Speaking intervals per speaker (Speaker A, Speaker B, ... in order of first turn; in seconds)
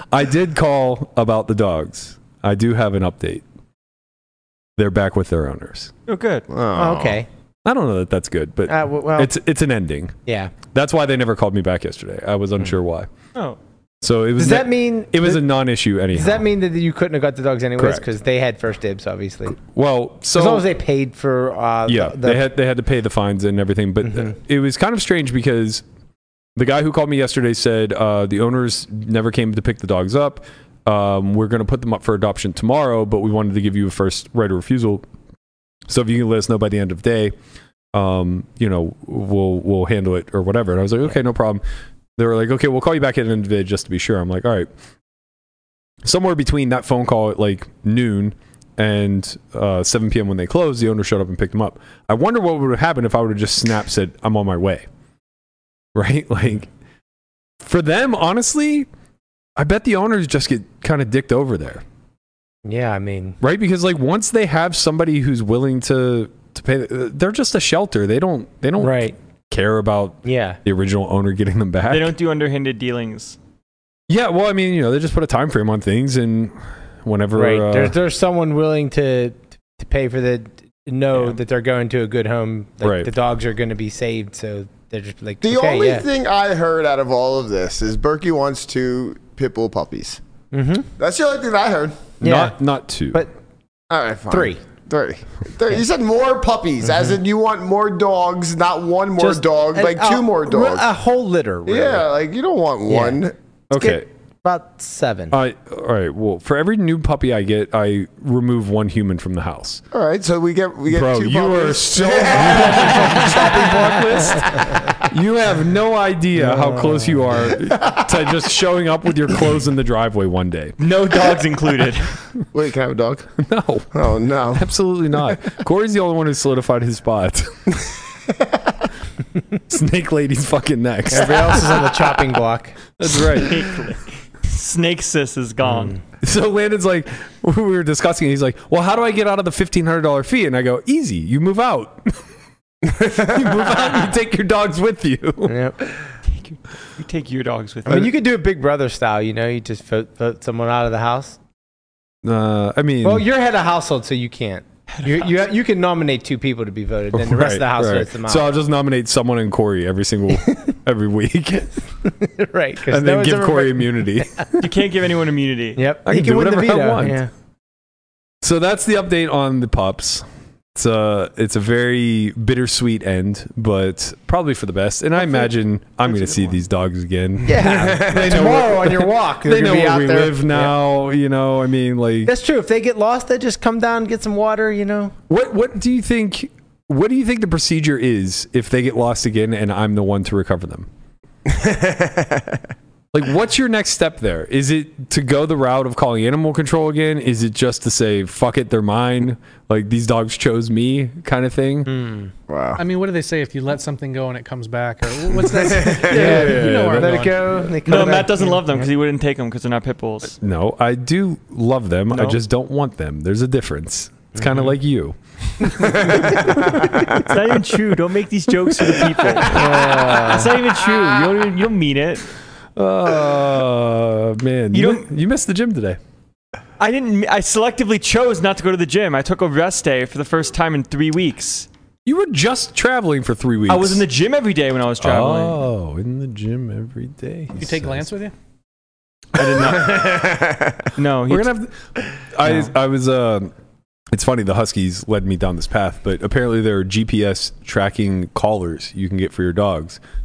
Speaker A: 0.1-3.4, 4.8-5.9, 7.6-10.2, 10.7-13.1, 14.0-16.4, 17.8-18.0, 19.6-20.7, 21.9-25.8, 26.6-35.0, 35.9-37.3, 37.9-41.6, 42.2-44.7, 46.0-54.9, 55.9-56.7, 57.6-58.9, 59.6-61.8, 63.4-72.1, 74.1-77.9, 82.8-83.1, 92.2-93.3, 103.7-104.0, 105.3-109.8, 110.9-120.8, 123.4-127.7, 129.7-131.9, 133.0-133.7, 136.2-142.2, 142.9-145.6, 152.2-153.2, 157.1-161.8, 162.9-164.7, 166.0-167.2, 168.4-170.2, 170.7-182.3, 185.3-190.9, 193.1-201.9, 206.0-207.2, 210.4-217.2, 219.3-220.5, 222.8-226.0, 232.1-234.1, 235.0-238.1, 241.3-241.7, 242.3-243.5, 244.1-250.0
Speaker B: 6.1-6.5, 71.9-73.4, 112.6-112.9, 120.8-122.1, 133.2-136.0, 146.3-148.1, 164.6-165.8, 207.8-210.4, 212.1-212.4, 217.0-222.3, 224.7-225.1, 226.8-231.7, 233.7-235.6, 239.3-240.4, 240.9-241.5, 242.4-242.7
Speaker C: 6.5-7.2, 85.4-90.2, 91.0-92.1, 93.9-100.9, 101.7-103.3, 109.9-113.9, 122.5-123.4, 123.9-124.7, 177.8-178.4, 191.4-192.6, 202.5-202.8, 205.7-206.0, 239.9-240.7
Speaker D: 6.7-7.3, 8.7-9.3, 10.2-10.5, 14.4-15.5, 16.1-19.6, 20.3-22.4, 62.6-63.4, 68.8-69.1, 70.2-70.6, 77.3-86.0, 90.5-90.9, 92.2-92.5, 94.3-94.6, 99.2-102.1, 102.9-103.2, 103.7-105.4, 116.4-117.2, 131.1-132.8, 145.4-145.8, 147.8-151.4, 153.0-158.5, 162.0-164.2, 165.8-167.3, 177.4-180.7, 182.2-185.1, 201.8-202.3, 206.0-208.9, 219.5-220.5
Speaker E: 202.8-208.1, 237.6-238.3